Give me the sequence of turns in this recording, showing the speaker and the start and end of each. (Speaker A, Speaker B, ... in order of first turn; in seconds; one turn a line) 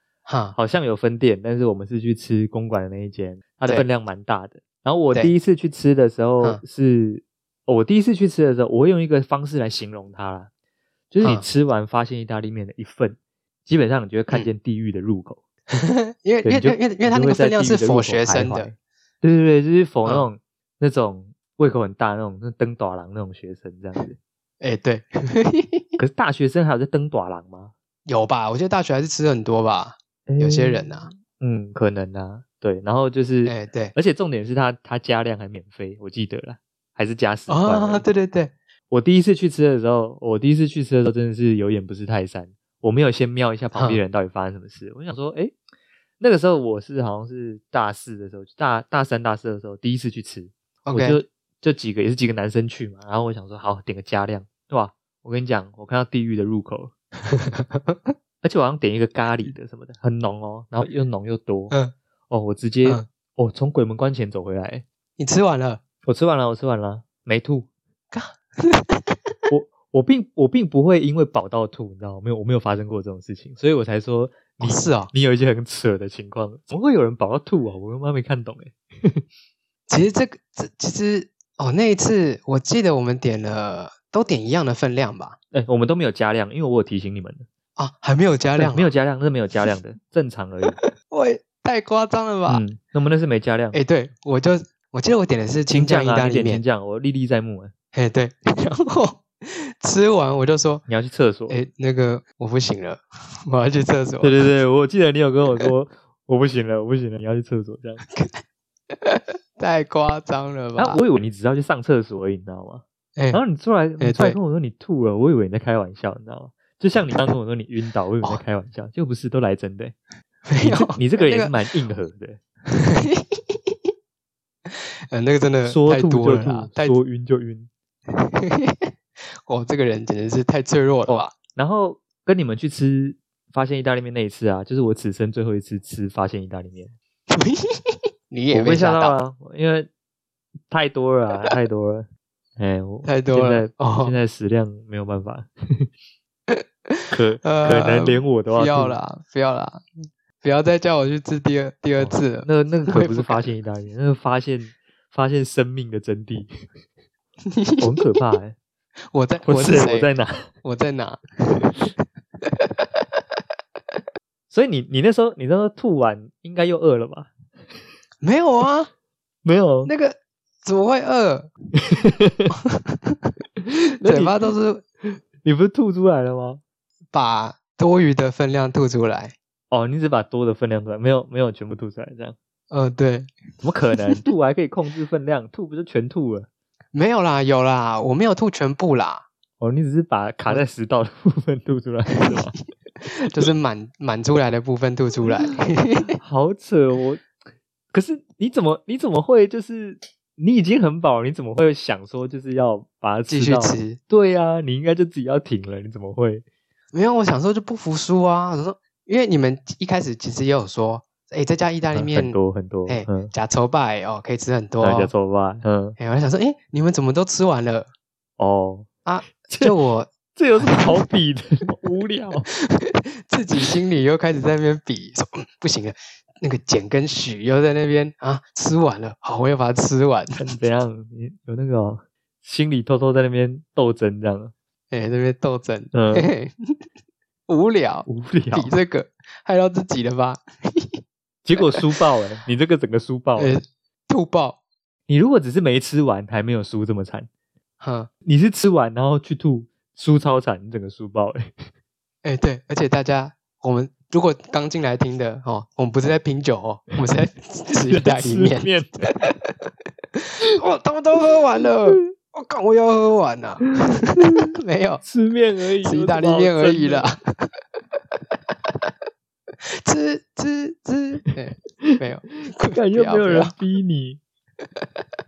Speaker A: 0.3-0.6
Speaker B: 0.5-10.5
Speaker B: 11.1-15.4
Speaker A: 11.2-11.5
Speaker A: 15.7-18.7
Speaker B: 16.4-24.2
Speaker A: 24.6-26.0
Speaker B: 26.0-27.7
Speaker A: 28.1-31.1
Speaker B: 30.3-38.1
Speaker A: 33.5-33.9
Speaker A: 37.5-38.5
Speaker B: 38.9-45.5
Speaker A: 43.8-44.0
Speaker B: 46.2-56.9
Speaker A: 50.9-51.2
Speaker A: 57.3-58.1
Speaker B: 58.4-61.8
Speaker B: 62.3-64.8
Speaker A: 65.2-65.8
Speaker B: 66.0-67.7
Speaker A: 68.1-69.2
Speaker B: 69.5-79.2
Speaker A: 74.6-75.1
Speaker A: 79.9-85.4
Speaker B: 85.5-87.5
Speaker A: 87.8-88.9
Speaker B: 88.6-90.8
Speaker A: 90.7-92.6
Speaker B: 92.5-93.8
Speaker A: 93.7-96.6
Speaker B: 95.7-97.7
Speaker A: 97.9-100.8
Speaker B: 100.9-101.6
Speaker A: 101.5-104.5
Speaker B: 104.2-108.0
Speaker A: 108.9-111.0
Speaker B: 110.8-120.0
Speaker A: 113.2-113.4
Speaker A: 114.0-114.4
Speaker A: 120.5-121.5
Speaker B: 120.6-122.4
Speaker A: 122.7-123.8
Speaker A: 124.7-127.0
Speaker B: 125.7-127.7
Speaker A: 128.1-128.9
Speaker A: 129.5-131.3
Speaker B: 131.1-136.9
Speaker A: 137.3-139.2
Speaker B: 138.5-139.9
Speaker B: 140.7-142.1
Speaker B: 142.6-145.9
Speaker A: 143.1-144.2
Speaker A: 146.5-149.8
Speaker B: 147.1-149.0
Speaker A: 150.4-153.5
Speaker B: 152.0-156.5
Speaker A: 157.5-157.9
Speaker B: 157.8-158.6
Speaker A: 159.1-160.1
Speaker B: 159.4-160.5
Speaker A: 160.6-161.7
Speaker A: 162.4-163.2
Speaker B: 164.5-167.3
Speaker A: 168.2-168.9
Speaker B: 169.4-169.9
Speaker A: 169.9-171.5
Speaker B: 171.8-172.5
Speaker A: 172.5-173.3
Speaker B: 173.6-174.4
Speaker A: 174.0-174.8
Speaker B: 175.4-176.6
Speaker A: 177.1-179.3
Speaker B: 179.7-182.4
Speaker A: 182.7-183.3
Speaker B: 183.6-186.5
Speaker A: 186.9-189.3
Speaker B: 189.6-192.6
Speaker A: 193.2-196.2
Speaker B: 196.2-197.2
Speaker B: 197.9-206.4
Speaker A: 203.3-204.0
Speaker A: 206.9-215.1
Speaker B: 211.9-213.3
Speaker B: 214.8-216.0
Speaker A: 216.0-217.9
Speaker B: 218.4-218.9
Speaker A: 219.1-221.1
Speaker B: 219.5-219.7
Speaker B: 220.3-222.5
Speaker A: 222.6-230.4
Speaker B: 230.4-234.5
Speaker A: 234.9-236.5
Speaker B: 235.9-236.3
Speaker A: 237.5-240.9
Speaker B: 238.1-238.7
Speaker B: 241.4-243.6
Speaker A: 243.4-244.6
Speaker B: 245.1-247.3
Speaker A: 247.8-248.1
Speaker B: 248.2-251.5
Speaker A: 252.2-265.0
Speaker B: 257.9-259.1
Speaker B: 263.6-264.4
Speaker B: 265.0-267.1
Speaker A: 265.8-267.5
Speaker A: 268.2-268.9
Speaker A: 269.7-273.6
Speaker B: 272.6-274.2